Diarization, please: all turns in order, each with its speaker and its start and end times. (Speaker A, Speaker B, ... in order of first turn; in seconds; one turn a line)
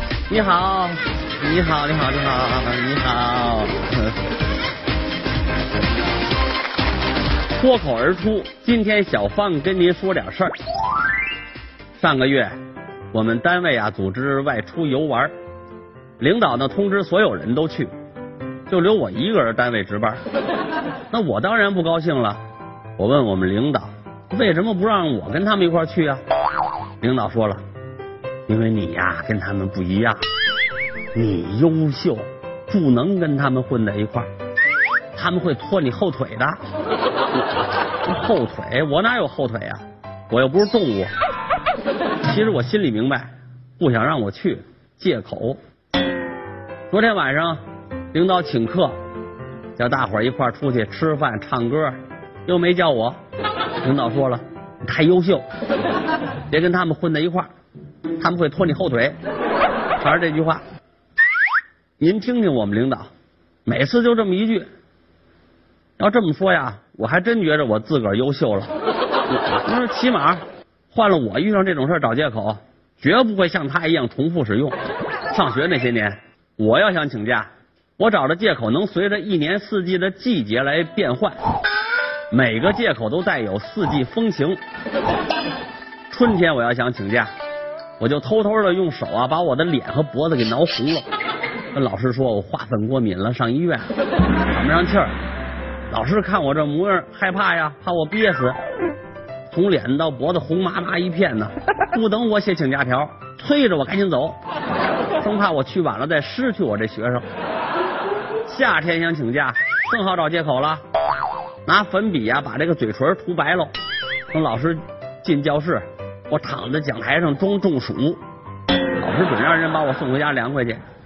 Speaker A: 0.3-4.1
Speaker A: 7.5-10.5
Speaker A: 12.0-12.5
Speaker A: 13.1-15.3
Speaker A: 16.2-17.9
Speaker A: 18.7-20.2
Speaker A: 21.1-22.4
Speaker A: 23.0-26.2
Speaker A: 27.0-27.6
Speaker A: 28.5-30.2
Speaker A: 31.1-34.3
Speaker A: 35.1-36.6
Speaker A: 38.0-41.1
Speaker A: 42.2-45.6
Speaker A: 46.9-47.6
Speaker A: 48.1-49.0
Speaker A: 49.8-53.2
Speaker A: 53.8-55.4
Speaker A: 56.5-57.5
Speaker A: 58.2-59.2
Speaker A: 60.0-60.6
Speaker A: 62.0-63.1
Speaker A: 63.7-64.7
Speaker A: 66.0-68.7
Speaker A: 69.3-74.8
Speaker A: 75.3-81.4
Speaker A: 82.3-84.6
Speaker A: 86.1-87.3
Speaker A: 88.0-91.1
Speaker A: 91.7-93.9
Speaker A: 94.5-95.1
Speaker A: 95.9-98.6
Speaker A: 99.5-104.4
Speaker A: 105.2-107.2
Speaker A: 108.5-110.8
Speaker A: 111.7-113.7
Speaker A: 114.3-118.2
Speaker A: 119.0-120.8